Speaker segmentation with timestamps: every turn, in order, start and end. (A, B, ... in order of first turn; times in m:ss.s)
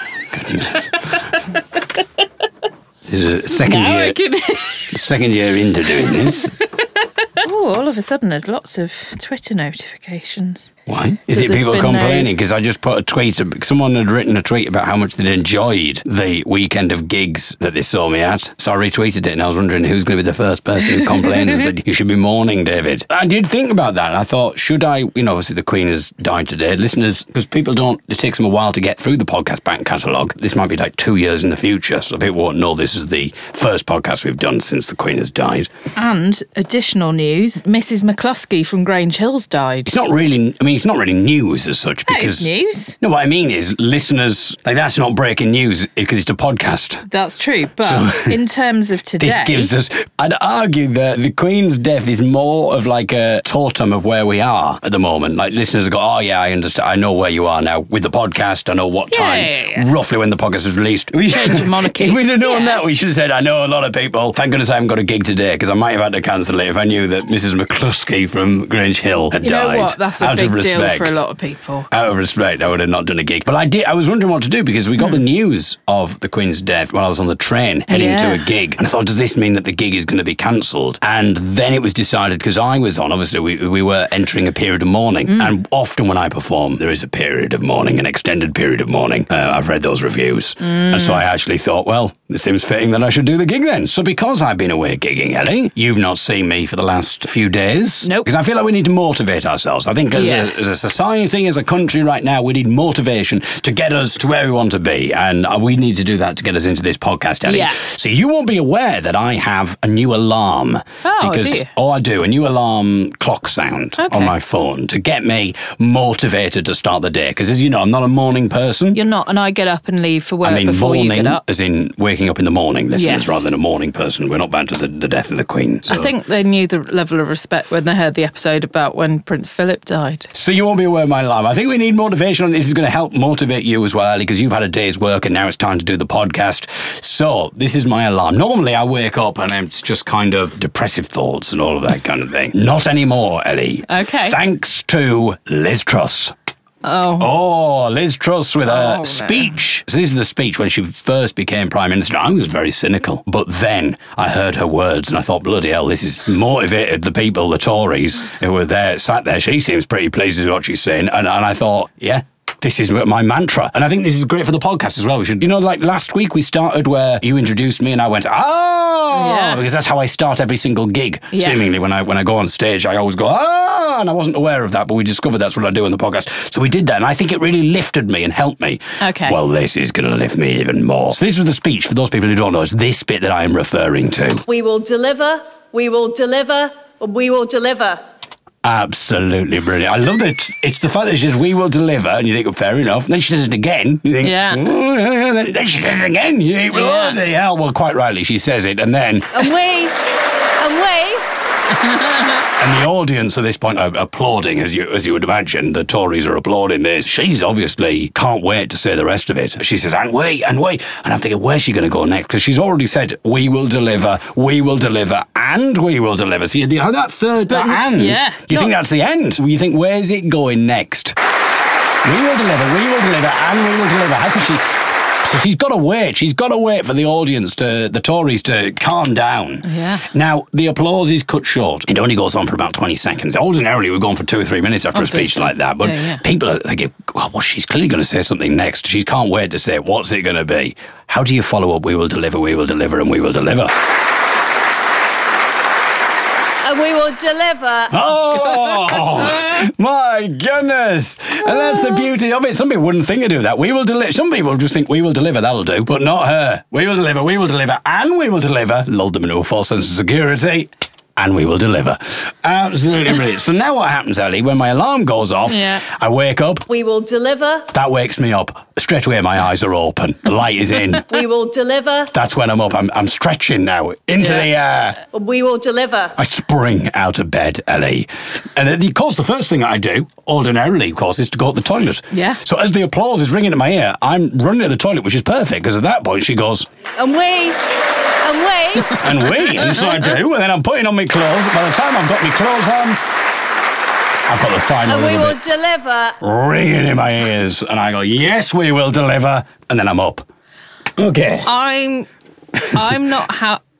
0:00.3-0:01.1 A
0:03.1-0:04.2 A
0:03.6-0:05.0 B
0:04.9-0:06.5 A
0:07.4-0:10.7 B
0:10.9-0:35.7 A
0:11.3-0:12.3 B
0:36.0-0:39.9 B
0:39.8-0:47.0 A
0:42.1-0:43.0 B
0:47.1-0:49.7 B
0:47.8-0:48.4 A
0:49.2-1:11.2 A
0:59.1-0:59.9 B
1:01.3-1:02.7 B
1:09.4-1:11.9 B
1:11.9-1:59.0 A
1:17.9-1:18.5 B
1:25.3-1:25.5 B
1:30.6-1:31.2 B
1:40.1-1:40.5 B
1:47.5-1:47.8 B
1:51.0-1:51.7 B
1:54.0-1:54.3 B
1:58.9-2:01.4 B
2:00.4-2:06.1 A
2:02.9-2:03.5 B
2:05.9-2:10.3 B
2:10.3-2:26.4 A
2:23.9-2:24.4 B
2:26.8-2:27.3 B
2:27.2-3:04.4 A
2:28.7-2:29.5 B
2:49.1-2:49.6 B
2:51.3-2:51.6 B
2:59.0-2:59.4 B
3:04.5-3:08.0 C
3:08.6-3:19.5 A
3:14.2-3:14.6 B
3:16.8-3:17.2 C
3:19.3-3:20.0 C
3:20.6-3:21.2 C
3:22.6-3:41.2 A
3:37.5-3:38.8 B
3:42.0-4:03.7 A
3:49.6-3:50.0 B
3:55.0-3:56.2 B
4:06.6-4:08.1 C
4:07.9-4:26.7 A
4:25.5-4:25.8 B
4:26.7-4:27.7 C
4:27.7-4:31.2 A
4:31.1-4:32.1 C
4:32.1-4:35.0 A
4:34.2-4:34.5 C
4:35.1-4:36.2 C
4:36.2-4:46.7 A
4:42.1-4:42.4 B
4:47.0-4:47.6 C
4:48.2-4:50.0 C
4:48.9-4:53.0 A
4:54.3-4:55.4 A
4:54.9-4:56.2 C
4:56.2-5:00.3 A
5:01.0-5:01.5 A
5:01.4-5:02.1 B
5:02.7-5:03.6 B